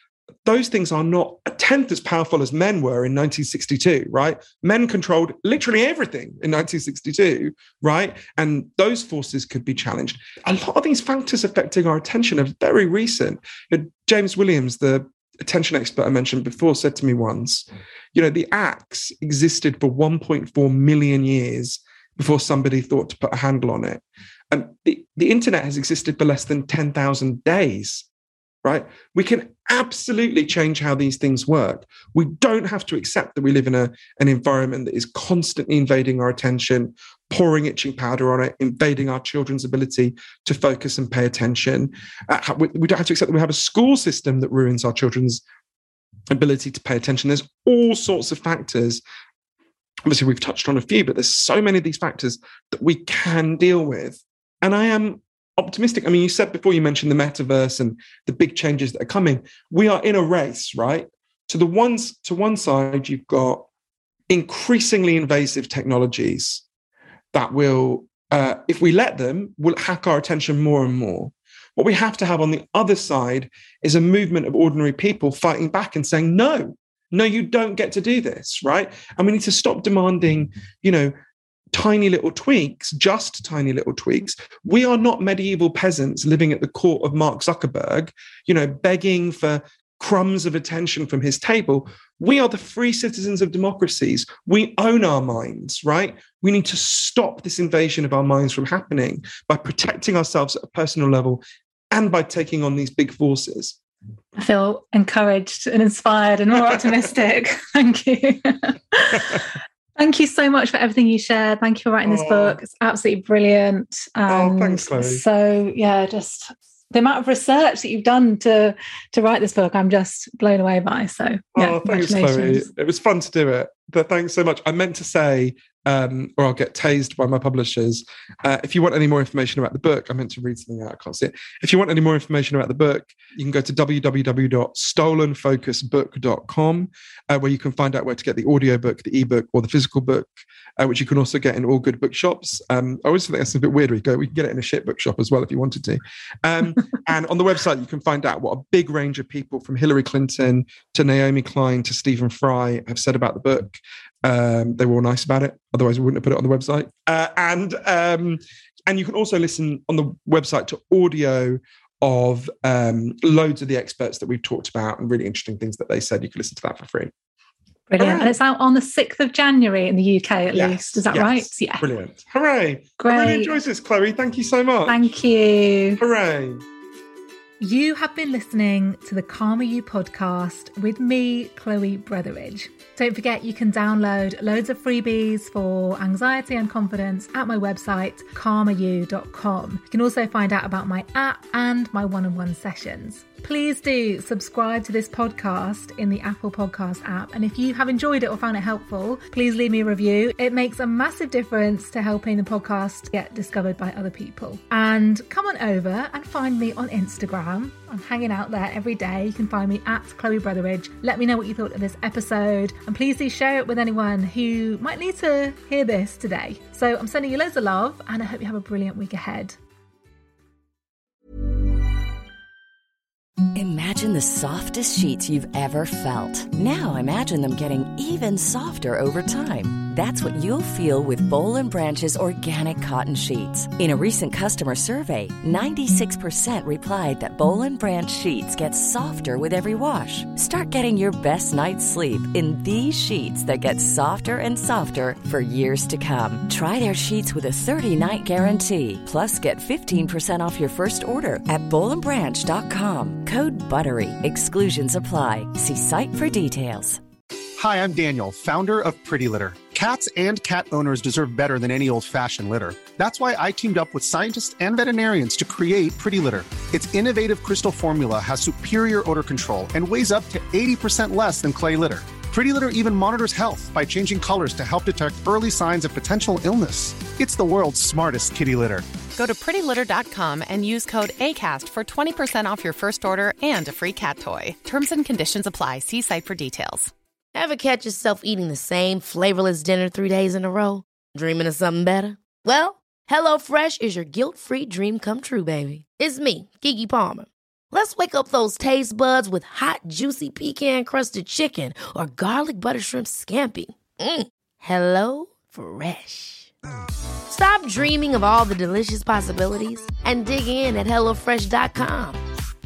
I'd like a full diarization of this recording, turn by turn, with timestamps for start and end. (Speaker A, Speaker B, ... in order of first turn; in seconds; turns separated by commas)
Speaker A: 0.4-28.1, Speaker A: 28.6-45.4, Speaker A: 46.3-49.0, Speaker A: 50.0-63.6, Speaker A: 64.3-66.6, Speaker A: 67.3-81.1, Speaker A: 81.7-103.8, Speaker B: 104.4-122.7, Speaker A: 112.0-112.6, Speaker A: 114.3-115.2, Speaker A: 121.5-167.1, Speaker B: 167.9-171.8, Speaker A: 168.0-168.4, Speaker A: 170.5-175.0, Speaker B: 173.0-173.6, Speaker B: 174.9-176.0, Speaker A: 176.0-176.6, Speaker B: 177.6-219.6, Speaker C: 223.5-257.0, Speaker D: 257.6-278.9, Speaker E: 279.1-286.9, Speaker F: 287.3-306.5, Speaker F: 307.3-312.2